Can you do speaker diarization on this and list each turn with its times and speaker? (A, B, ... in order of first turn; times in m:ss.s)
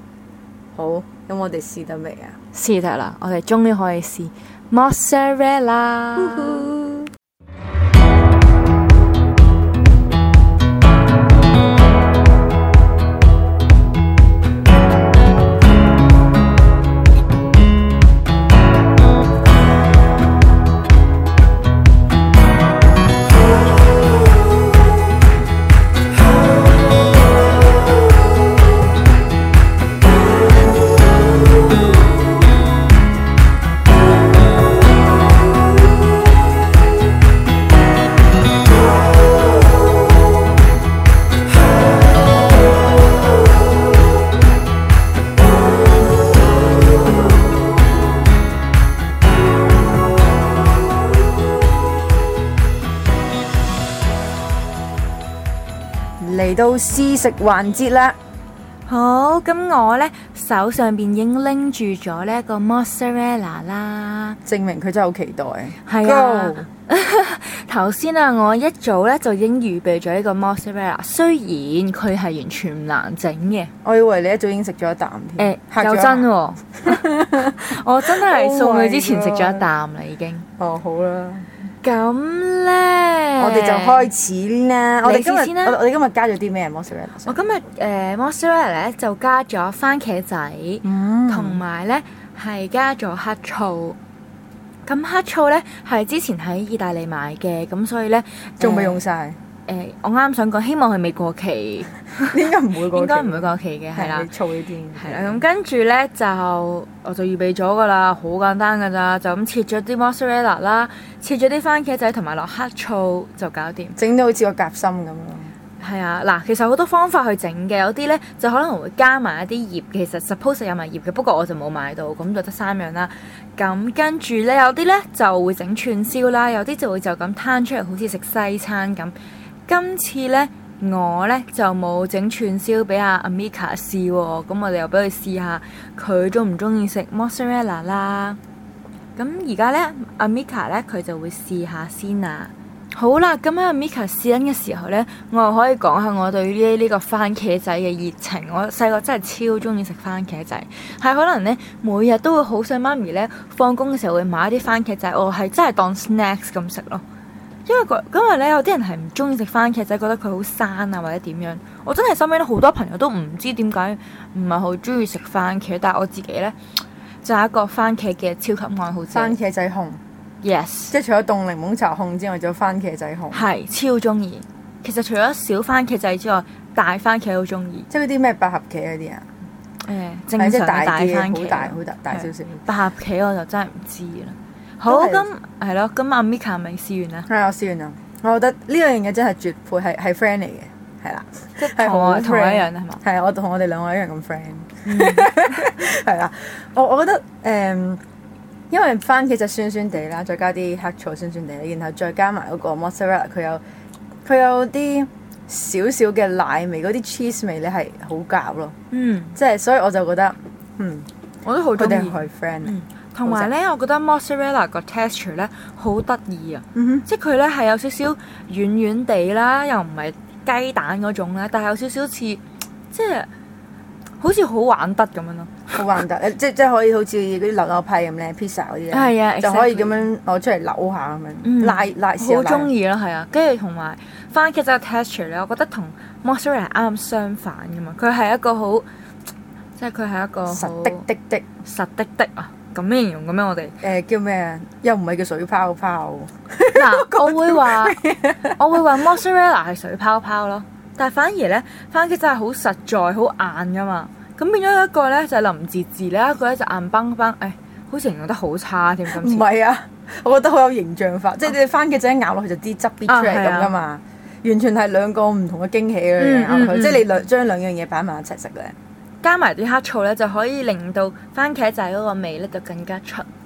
0:00.8-0:02.4 A
0:02.5-0:07.1 B
0:06.2-0:06.7 A
0:56.2-0:58.2 A
0:58.9-1:04.4 B
1:04.4-1:06.7 A
1:05.8-1:13.7 B
1:13.8-1:16.3 A
1:15.4-1:20.5 B
1:16.8-1:19.7 A
1:20.6-1:21.5 A
1:21.8-1:24.1 B
1:23.4-1:27.4 A
1:25.0-1:25.8 B
1:27.3-1:34.0 B
1:30.8-1:31.6 A
1:34.9-1:39.0 B
1:38.6-1:39.4 A
1:39.7-1:42.4 B
1:42.2-1:45.4 A
1:42.9-1:44.3 B
1:45.0-1:54.0 B
1:54.0-1:55.5 A
1:55.8-2:09.2 B
2:09.7-2:18.4 B
2:19.2-2:37.0 B
2:37.7-2:46.6 B
2:47.2-2:49.4 B
2:49.1-2:50.0 A
2:50.4-2:51.0 B
2:50.9-2:53.4 A
2:53.3-2:57.9 B
2:57.9-2:59.3 A
2:59.8-3:07.3 B
3:00.4-3:02.7 A
3:04.9-3:05.3 A
3:07.3-3:18.0 A
3:11.6-3:13.0 B
3:14.8-3:15.4 B
3:18.7-3:23.6 A
3:24.2-3:28.8 A
3:28.9-3:29.4 B
3:29.4-3:31.1 A
3:31.4-3:42.4 B
3:31.8-3:33.5 A
3:36.8-3:37.1 A
3:42.9-3:43.3 B
3:44.2-3:45.8 B
3:45.7-3:52.7 A
3:48.9-3:50.1 B
3:51.4-3:58.9 B
3:59.8-4:01.0 B
4:00.5-4:01.4 A
4:01.6-4:03.8 B
4:03.8-4:08.8 A
4:06.7-4:08.0 B
4:08.6-4:19.4 B
4:19.1-4:28.8 A
4:23.1-4:23.7 B
4:26.2-4:27.0 B
4:29.2-4:33.3 B